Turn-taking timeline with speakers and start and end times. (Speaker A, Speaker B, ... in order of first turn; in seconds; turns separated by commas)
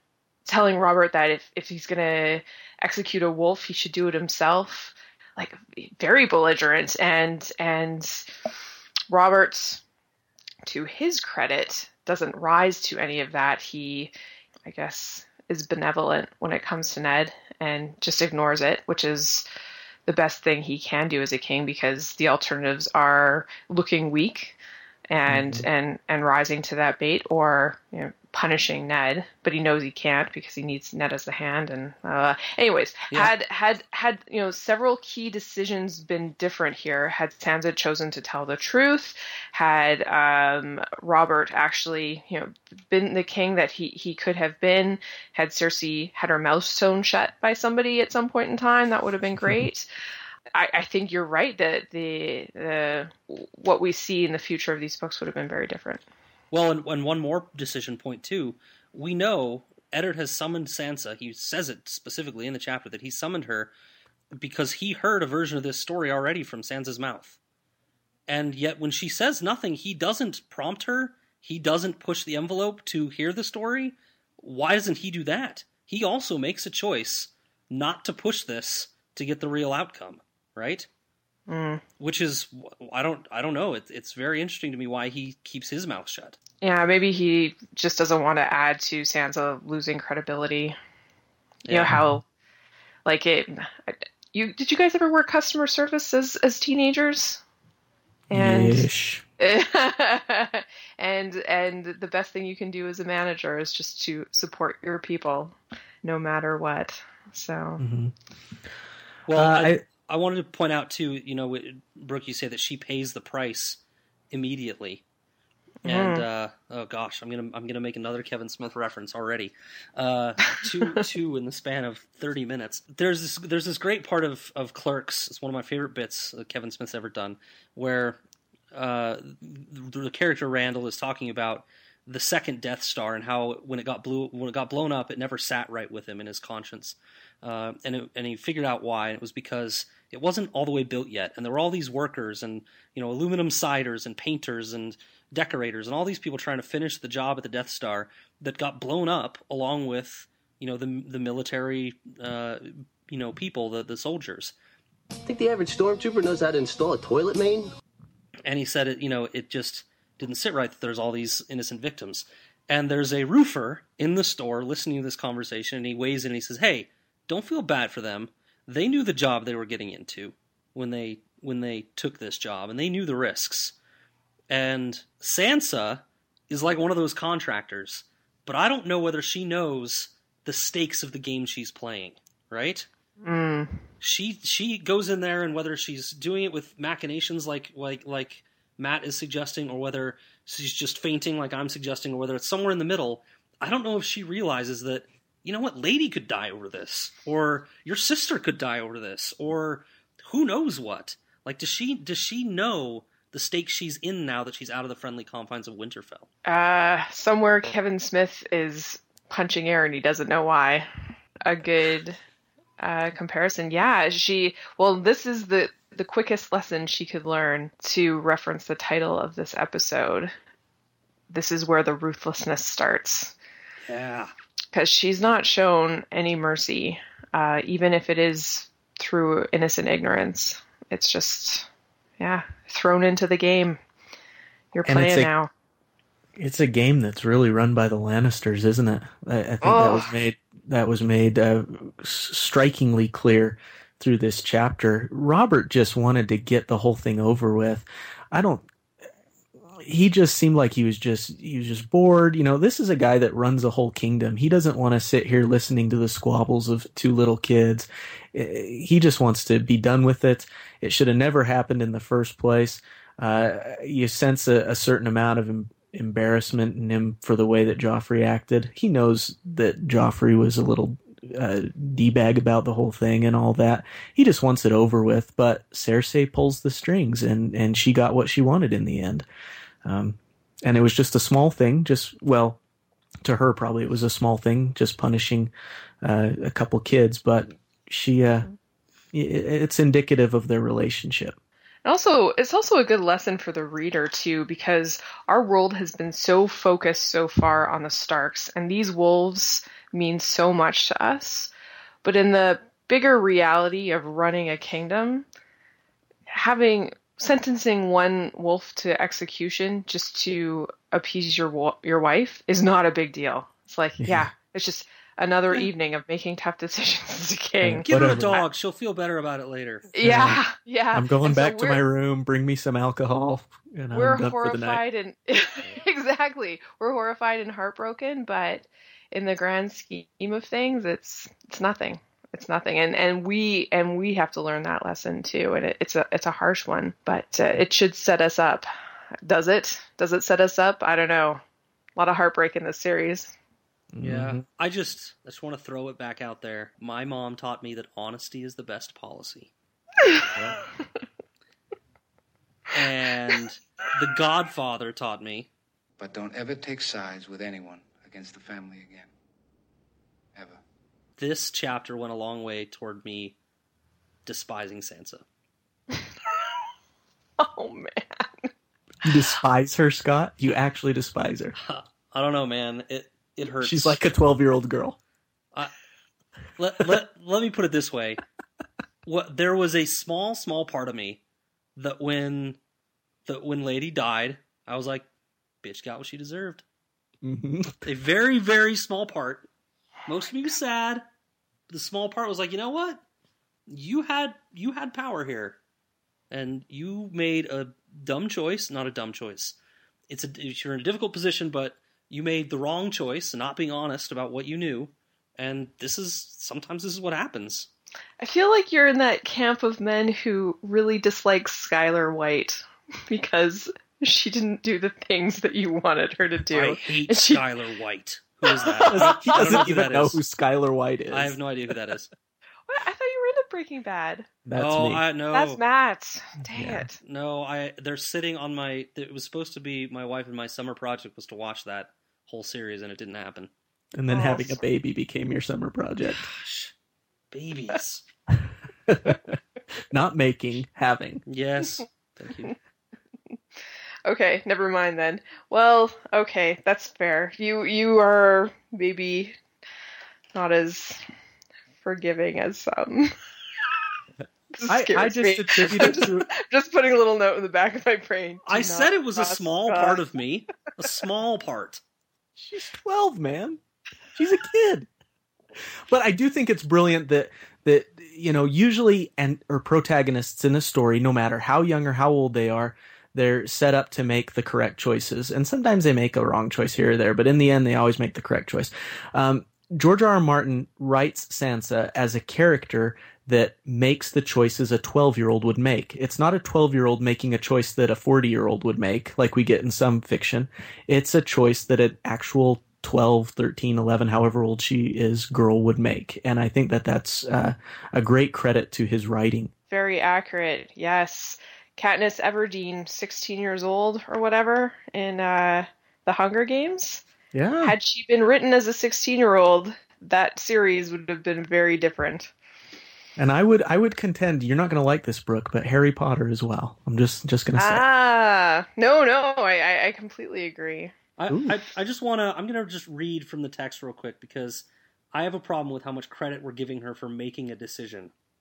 Speaker A: 0.5-8.2, Speaker A: 9.1-9.8, Speaker A: 10.6-14.1, Speaker A: 14.6-19.4, Speaker A: 20.1-24.6, Speaker A: 25.1-49.9, Speaker B: 25.3-25.6, Speaker A: 50.5-56.0, Speaker C: 56.5-63.7, Speaker C: 64.3-67.4, Speaker C: 68.3-80.9, Speaker A: 81.5-81.8, Speaker C: 82.0-86.4, Speaker A: 86.6-90.8, Speaker C: 91.6-91.9, Speaker A: 91.7-92.2, Speaker B: 91.9-92.2, Speaker A: 93.0-97.4, Speaker A: 98.3-98.9, Speaker B: 98.3-99.2, Speaker A: 99.4-107.8, Speaker B: 107.8-108.1, Speaker C: 109.3-113.8, Speaker B: 109.3-109.8, Speaker C: 114.3-115.0, Speaker C: 115.8-128.2, Speaker A: 115.9-116.2, Speaker C: 128.7-154.5, Speaker D: 155.2-157.7, Speaker C: 158.4-173.7, Speaker C: 174.5-182.9, Speaker A: 183.2-183.8, Speaker C: 184.0-206.3, Speaker A: 206.4-210.9, Speaker A: 211.4-212.2, Speaker A: 212.8-220.3, Speaker A: 221.3-223.3, Speaker C: 223.9-224.3, Speaker A: 224.7-231.7, Speaker A: 232.2-233.8, Speaker A: 234.7-235.5, Speaker B: 234.8-235.3, Speaker B: 236.4-248.7, Speaker A: 239.6-240.1, Speaker B: 249.8-279.3, Speaker B: 279.8-282.6, Speaker B: 283.2-285.5, Speaker B: 286.0-288.5, Speaker B: 289.1-291.4, Speaker A: 291.8-301.5, Speaker A: 302.0-305.3, Speaker A: 306.3-318.4, Speaker B: 314.0-314.3, Speaker B: 317.6-318.4, Speaker C: 317.8-320.0, Speaker A: 319.9-321.8, Speaker B: 320.0-324.8, Speaker A: 323.9-338.7, Speaker A: 339.2-341.4, Speaker A: 342.0-343.3, Speaker B: 343.9-344.4, Speaker C: 344.0-349.5, Speaker B: 350.3-350.6, Speaker C: 352.7-355.5, Speaker E: 356.0-359.1, Speaker E: 360.3-360.6, Speaker C: 361.2-363.3, Speaker C: 364.2-365.2, Speaker A: 367.4-368.5, Speaker B: 369.0-371.5, Speaker C: 371.6-374.0, Speaker B: 373.6-375.0, Speaker C: 376.6-378.2, Speaker C: 379.0-381.2, Speaker C: 381.8-382.6, Speaker C: 383.2-385.0, Speaker C: 385.6-386.6, Speaker B: 387.2-387.8, Speaker C: 387.8-389.4, Speaker C: 390.1-391.0, Speaker C: 391.7-393.0, Speaker C: 393.7-395.6, Speaker C: 396.3-399.6, Speaker C: 400.1-407.7, Speaker A: 408.2-417.4, Speaker C: 416.5-420.2, Speaker A: 418.6-419.6, Speaker B: 418.9-421.4, Speaker C: 421.1-422.1, Speaker A: 422.7-424.3, Speaker B: 424.4-425.0, Speaker C: 424.6-425.6, Speaker A: 425.3-427.0, Speaker B: 426.5-426.9, Speaker C: 427.0-433.5, Speaker B: 433.9-436.3, Speaker A: 434.1-434.6, Speaker C: 436.2-436.7, Speaker C: 437.3-438.0, Speaker B: 438.9-439.4, Speaker B: 439.9-441.2, Speaker C: 441.3-442.5, Speaker A: 444.1-449.4, Speaker A: 450.3-451.0, Speaker A: 451.8-453.1, Speaker A: 454.5-460.0, Speaker B: 454.7-456.3, Speaker C: 458.5-461.8, Speaker B: 462.4-463.6, Speaker B: 464.1-464.9, Speaker B: 465.9-499.5, Speaker A: 499.7-507.0, Speaker B: 507.3-507.7, Speaker A: 507.6-512.3, Speaker B: 513.2-517.8, Speaker A: 517.6-520.9, Speaker C: 521.2-528.1, Speaker B: 521.3-521.6